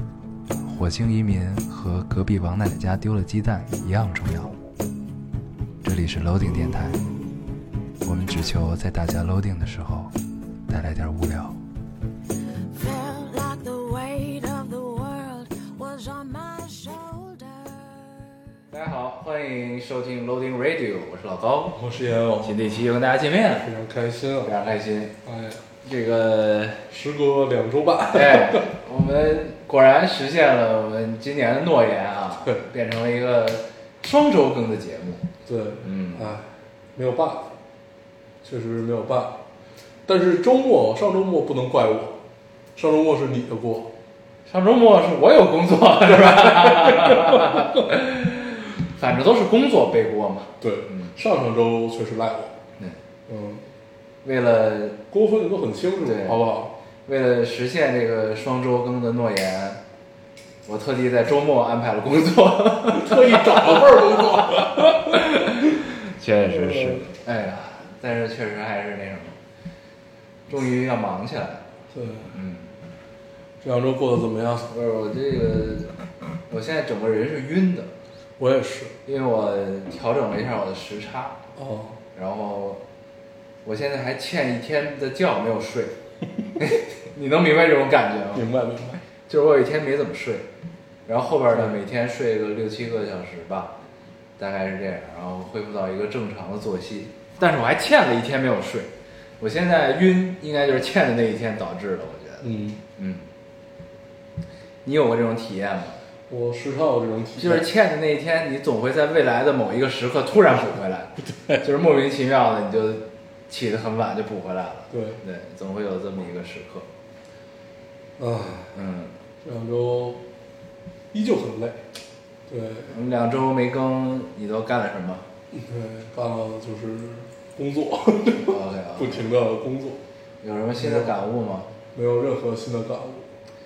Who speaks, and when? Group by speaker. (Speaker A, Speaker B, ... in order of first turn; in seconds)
Speaker A: 0.6-4.5, 5.8-7.0, 8.0-10.1, 10.7-11.6, 18.7-21.8, 22.4-23.7, 24.4-25.1, 25.8-26.8, 28.1-35.2, 35.8-36.3, 44.5-51.1, 54.2-55.0, 56.0-56.4, 57.0-59.8, 60.6-69.4, 70.5-71.7, 72.3-72.7, 74.7-75.9, 76.5-77.9, 79.0-81.4, 82.1-82.8, 83.6-85.9, 86.6-88.5, 89.2-90.5, 91.1-93.8, 94.4-103.2, 104.8-106.0, 107.4-116.9, 118.7-119.1, 122.9-125.3, 128.4-129.2, 130.4-131.7
Speaker B: 12.7-18.4
Speaker C: 21.8-22.7, 23.5-24.5, 25.2-25.6, 26.9-28.7, 35.4-37.5, 38.4-39.4, 40.0-42.2, 42.8-43.9, 46.0-47.9, 50.6-52.6, 53.3-53.6, 55.1-56.7, 62.9-65.3, 66.4-67.1, 71.9-72.3, 73.6-74.7, 78.4-78.9, 81.5-82.0, 88.3-89.0, 91.5-91.8, 102.4-102.8, 106.3-107.7, 111.3-111.6, 114.9-115.2, 118.2-118.7, 119.4-120.2, 121.1-121.8, 122.5-122.9, 125.5-130.0, 130.8-131.1, 131.9-133.3